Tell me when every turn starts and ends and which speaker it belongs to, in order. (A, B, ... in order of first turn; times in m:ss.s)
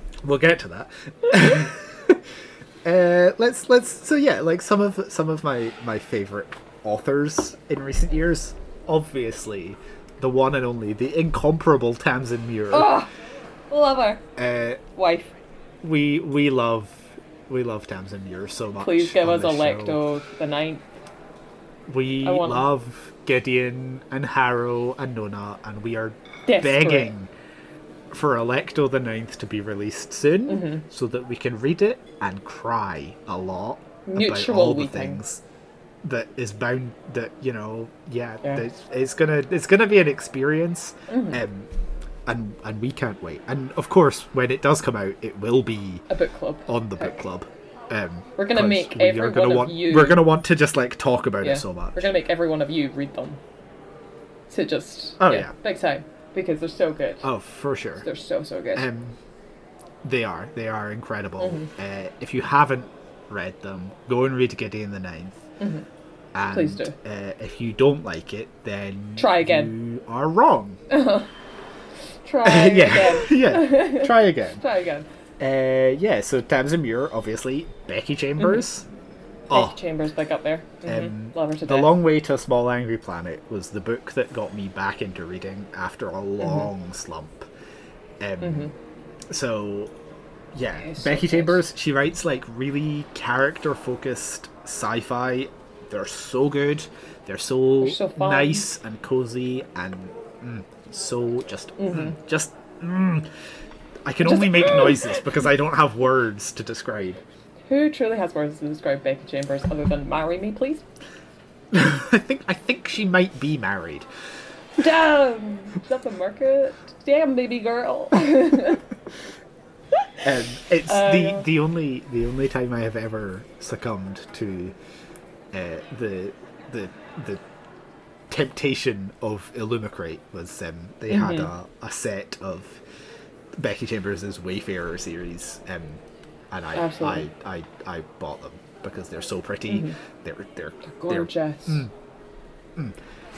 0:00.2-0:02.2 A
0:02.8-0:12.9 A
0:12.7-0:13.1 B
0:13.7-0:14.2 B
0:14.4-0:14.8 A
0:15.0-0:15.3 B
0:15.8-0:20.0 A
0:18.8-0:20.8 B
0:21.9-0:27.3 A
0:22.2-0:22.7 B
0:26.5-0:27.1 B
0:28.1-0:35.4 A
0:30.5-0:30.8 B
0:34.1-0:35.2 B
0:36.0-0:41.7 A
0:41.1-0:41.4 B
0:42.3-0:46.0 A
0:46.1-0:47.2 B
0:46.7-0:52.1 A
0:48.4-0:50.3 B
0:51.4-0:53.4 B
0:54.5-0:57.3 B
0:55.2-0:55.5 A
0:57.2-0:58.0 A
0:58.0-0:58.9 B
0:58.8-0:59.2 A
1:00.0-1:05.4 A
1:01.4-1:01.7 B
1:05.6-1:05.9 B
1:06.4-1:10.8 A
1:06.5-1:07.0 B
1:09.2-1:09.7 B
1:10.9-1:11.3 B
1:12.2-1:15.1 B
1:12.4-1:14.6 A
1:15.4-1:18.9 A
1:19.5-1:19.8 A
1:19.5-1:22.0 B
1:20.8-1:27.5 A
1:28.2-1:28.7 A
1:28.4-1:28.7 B
1:29.3-1:29.9 A
1:30.5-1:43.3 A
1:30.8-1:31.6 B
1:37.8-1:38.7 B
1:41.8-1:42.2 B
1:44.0-1:47.2 A
1:44.2-1:45.4 B
1:47.7-1:50.8 B
1:51.7-1:54.1 A
1:54.8-1:58.8 B
2:00.0-2:01.5 B
2:00.2-2:04.8 A
2:05.5-2:07.4 A
2:08.3-2:12.8 A
2:11.1-2:11.5 B
2:13.6-2:21.9 A
2:16.7-2:17.2 B
2:19.7-2:20.0 B
2:20.9-2:21.9 B